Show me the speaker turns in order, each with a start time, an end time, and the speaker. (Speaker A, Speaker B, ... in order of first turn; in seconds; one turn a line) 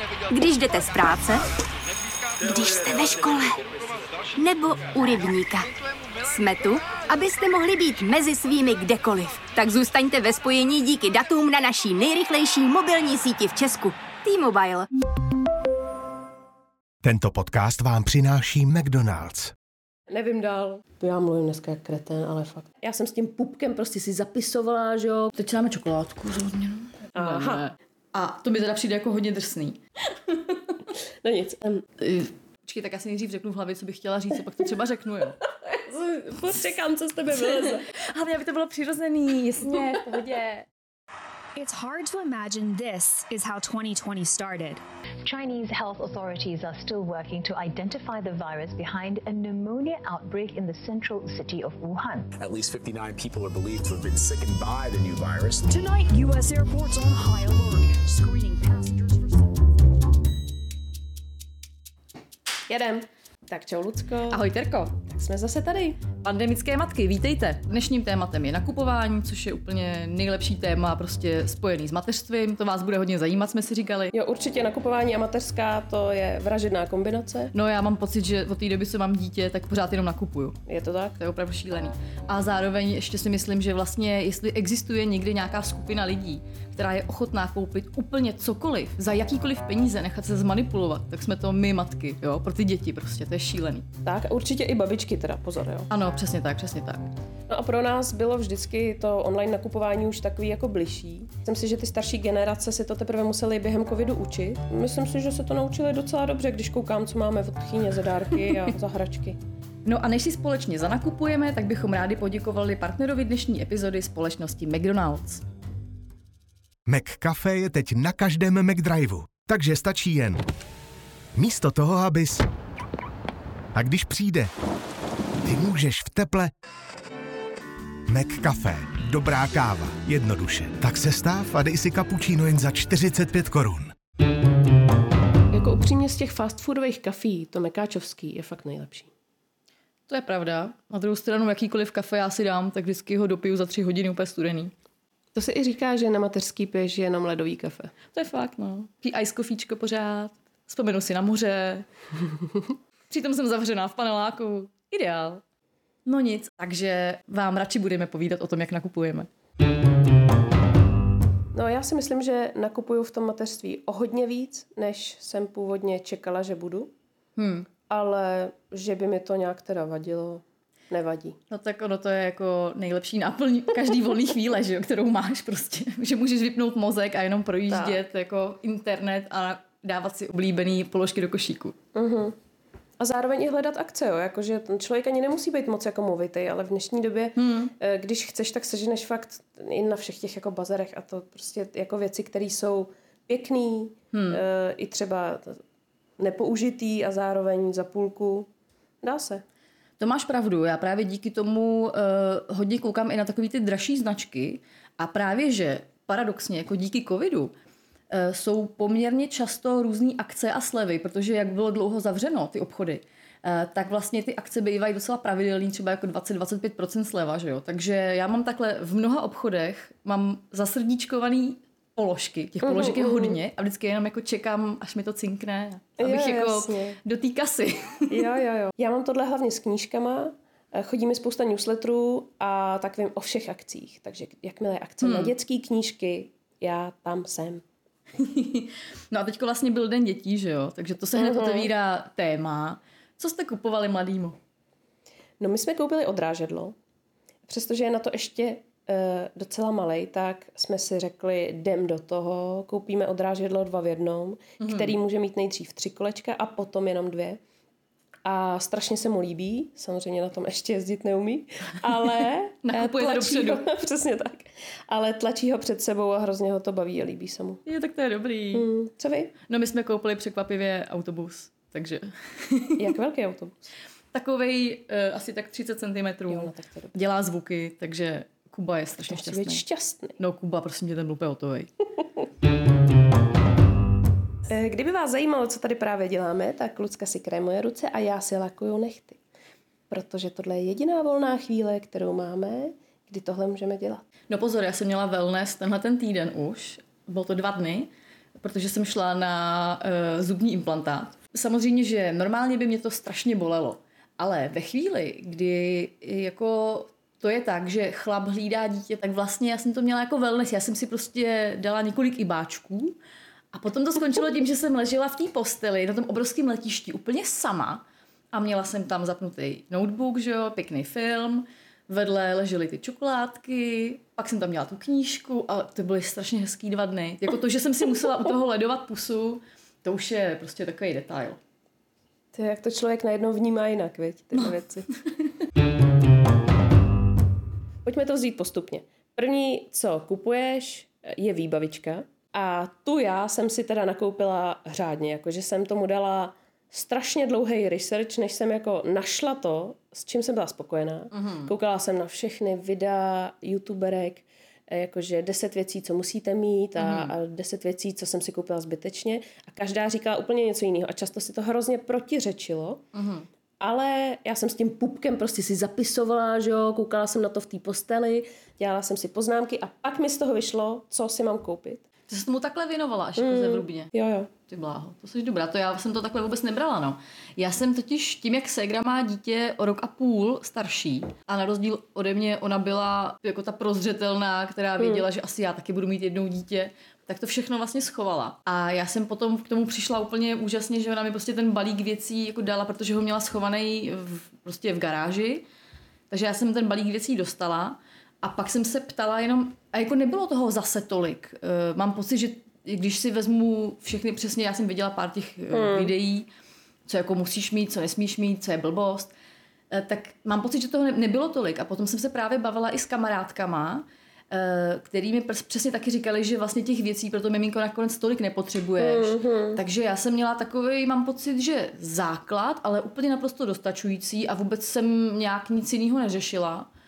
Speaker A: 0.3-1.4
Speaker A: 2.4-3.6
Speaker A: 4.3-5.7
Speaker A: 6.2-14.9
Speaker B: 17.0-19.5
Speaker C: 20.1-25.3
Speaker D: 25.3-29.8
Speaker C: 27.1-27.6
Speaker C: 31.2-31.8
Speaker D: 32.0-35.4
Speaker C: 35.6-37.8
Speaker D: 37.3-40.6
Speaker E: 41.5-44.8
Speaker F: 45.2-52.3
Speaker G: 52.4-55.6
Speaker E: 55.7-59.6
Speaker C: 62.7-64.4
Speaker D: 64.3-64.9
Speaker C: 65.0-66.0
Speaker D: 66.2-74.1
Speaker C: 74.1-77.5
Speaker D: 77.5-80.6
Speaker C: 80.7-81.2
Speaker D: 81.2-93.8
Speaker C: 94.0-95.9
Speaker D: 95.9-97.1
Speaker C: 97.5-109.4
Speaker D: 109.8-115.4
Speaker B: 116.9-120.4
Speaker B: 121.3-122.5
Speaker B: 123.7-124.5
Speaker B: 125.4-126.5
Speaker B: 128.1-133.9
Speaker C: 135.5-139.1
Speaker D: 140.1-144.7
Speaker C: 145.3-147.9
Speaker D: 148.1-151.8
Speaker D: 153.1-155.4
Speaker D: 156.1-159.3
Speaker C: 161.5-166.9
Speaker D: 167.3-167.7
Speaker C: 167.9-171.4
Speaker D: 171.5-181.8
Speaker C: 177.7-178.0
Speaker C: 181.9-182.3
Speaker C: 183.0-195.6
Speaker D: 187.3-187.7
Speaker D: 194.1-194.4
Speaker C: 196.2-198.5
Speaker C: 199.0-199.4
Speaker D: 200.0-207.5
Speaker D: 208.1-228.2
Speaker C: 222.6-223.4
Speaker C: 226.0-227.0
Speaker C: 228.1-237.6
Speaker D: 235.0-235.3
Speaker D: 238.2-244.4
Speaker C: 241.2-241.7
Speaker C: 245.4-246.8
Speaker C: 247.5-257.4
Speaker D: 254.6-254.9
Speaker C: 258.2-267.6
Speaker D: 262.6-263.6
Speaker D: 267.6-268.7
Speaker C: 268.5-269.3
Speaker D: 269.5-272.9
Speaker C: 272.8-273.6
Speaker D: 274.1-279.6
Speaker C: 276.3-276.9
Speaker C: 279.0-280.2
Speaker D: 280.2-281.7
Speaker C: 284.4-289.2
Speaker C: 289.9-294.0
Speaker D: 294.3-297.9
Speaker D: 298.4-312.9
Speaker D: 313.5-317.8
Speaker D: 318.3-331.4
Speaker C: 332.3-334.9
Speaker C: 337.8-362.8
Speaker D: 351.1-351.5
Speaker D: 356.8-357.1
Speaker D: 362.9-363.2
Speaker C: 363.6-371.8
Speaker D: 372.1-373.9
Speaker C: 373.2-374.3
Speaker D: 374.5-395.4
Speaker C: 384.8-385.1
Speaker D: 396.1-406.2
Speaker C: 405.5-405.9
Speaker D: 406.9-409.1
Speaker D: 409.7-426.7
Speaker C: 418.8-419.6